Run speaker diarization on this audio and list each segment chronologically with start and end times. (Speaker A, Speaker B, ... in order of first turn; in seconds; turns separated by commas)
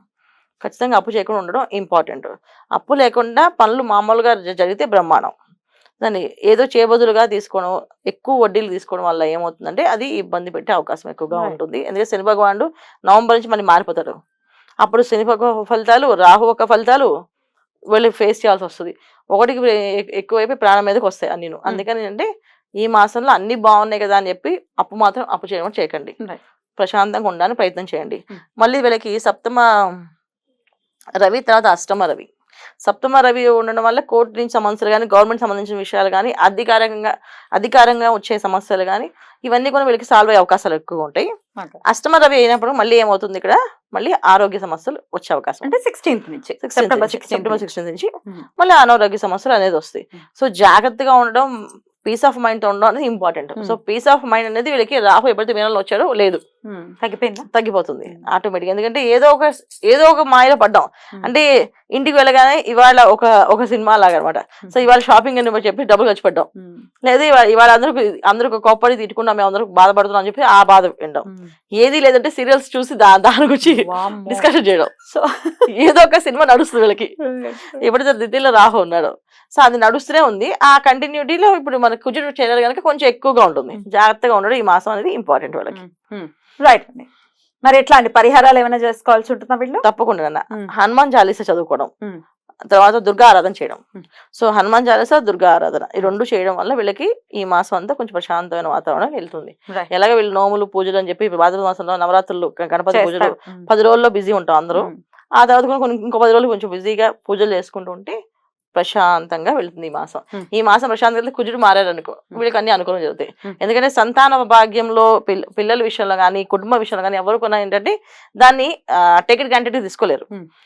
Speaker A: 0.6-5.3, Speaker A: 6.0-14.2, Speaker A: 14.8-17.1, Speaker A: 17.9-22.3, Speaker A: 22.8-26.2, Speaker A: 26.8-29.6, Speaker A: 31.2-32.3, Speaker A: 32.8-41.3, Speaker A: 41.8-45.7, Speaker B: 45.6-47.6, Speaker A: 46.6-51.5, Speaker A: 52.0-56.4, Speaker B: 56.7-57.5, Speaker A: 57.5-66.5, Speaker B: 66.6-66.8, Speaker A: 67.0-71.3, Speaker B: 71.3-71.5, Speaker A: 71.8-74.9, Speaker B: 73.6-74.5, Speaker B: 75.1-75.7, Speaker A: 75.7-77.1, Speaker B: 77.2-77.8, Speaker A: 77.8-85.8, Speaker B: 85.7-87.1, Speaker B: 87.6-89.8, Speaker A: 89.8-91.9, Speaker A: 92.7-93.8, Speaker A: 94.3-108.1, Speaker B: 102.9-103.7, Speaker A: 108.7-120.3